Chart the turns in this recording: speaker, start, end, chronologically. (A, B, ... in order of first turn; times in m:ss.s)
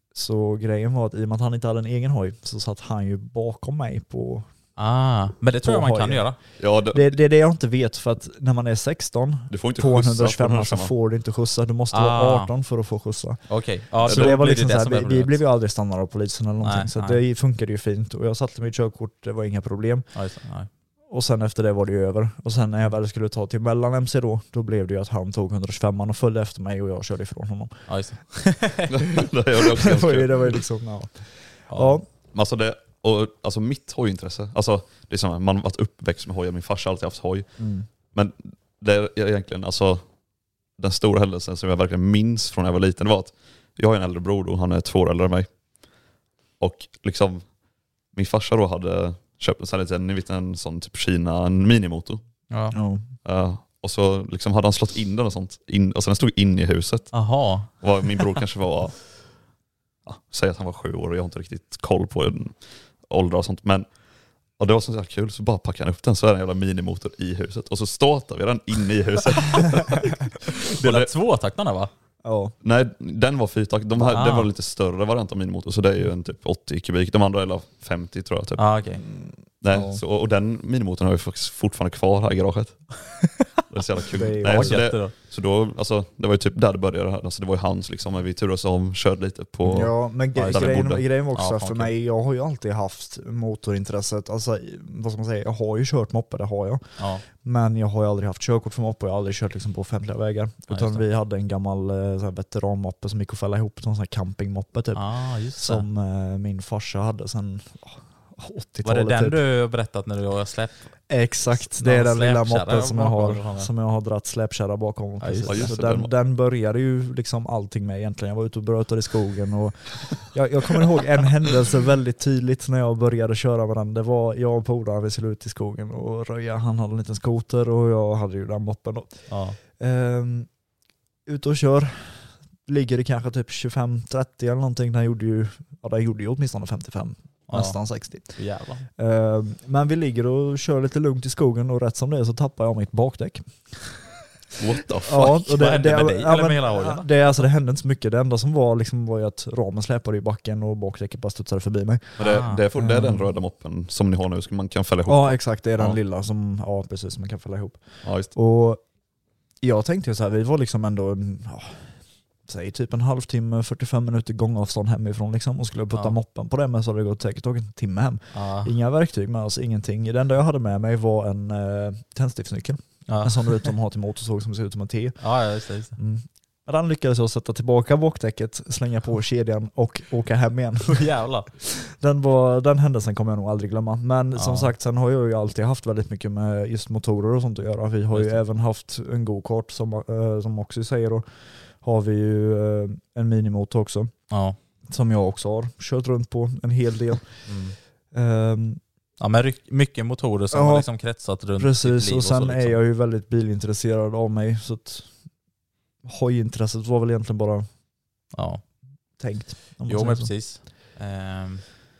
0:00.1-0:04.5 A
0:04.8-0:06.4 B
0:05.6-0:20.1 A
0:06.6-0:07.1 C
0:09.5-0:10.9 C
0:11.9-0:12.5 B
0:13.5-0:15.4 B
0:14.1-0:14.3 C
0:16.6-0:17.2 B
0:20.1-0:20.7 B
0:21.1-0:27.8 A
0:27.9-0:29.0 B
0:28.9-0:30.6 C
0:29.8-0:32.0 A
0:31.7-0:32.0 B
0:32.3-0:37.5 C
0:37.6-0:37.9 A
0:38.1-0:40.0 C
0:40.8-0:45.5 C
0:46.6-0:47.4 C
0:48.1-0:52.2 C
0:52.5-0:52.8 B
0:52.7-0:53.0 A
0:53.2-0:59.0 C
0:57.1-0:57.7 B
1:00.0-1:03.8 C
1:04.6-1:11.1 C
1:10.7-1:11.9 B
1:12.2-1:12.5 A
1:12.6-1:18.7 C
1:14.1-1:14.5 B
1:18.6-1:19.0 B
1:19.1-1:20.0 A
1:19.6-1:22.8 C
1:23.7-1:31.0 C
1:24.1-1:24.8 A
1:24.4-1:25.1 B
1:29.6-1:49.4 A
1:30.3-1:31.9 B
1:37.0-1:37.2 B
1:40.7-1:41.0 B
1:44.9-1:45.8 B
1:48.8-1:50.9 B
1:51.1-2:10.5 A
1:51.5-1:53.7 B
1:55.2-1:55.7 B
1:55.5-1:56.1 C
2:09.3-2:09.6 B
2:11.2-2:18.4 A
2:17.5-2:18.9 B
2:19.0-2:24.1 A
2:24.6-2:25.2 C
2:25.0-2:27.1 B
2:25.0-2:32.2 A
2:32.2-2:36.0 C
2:32.2-2:32.6 B
2:32.8-2:33.3 A
2:35.1-2:37.8 A
2:38.0-2:38.3 C
2:38.3-2:38.8 A
2:39.6-2:41.9 A
2:42.5-2:55.2 A
2:48.3-2:48.7 B
2:53.1-2:53.7 B
2:55.2-2:56.0 B
2:56.0-3:01.1 A
3:00.9-3:01.5 B
3:01.6-3:11.2 A
3:04.4-3:04.7 B
3:08.1-3:08.4 B
3:11.8-3:14.1 A
3:14.3-3:14.6 B
3:14.9-3:17.3 A
3:17.5-3:17.8 B
3:18.1-3:18.8 A
3:19.2-3:22.8 B
3:20.5-3:20.9 A
3:21.6-3:25.1 A
3:26.0-3:27.6 A
3:28.3-3:28.6 B
3:29.2-3:30.3 A
3:29.9-3:31.6 B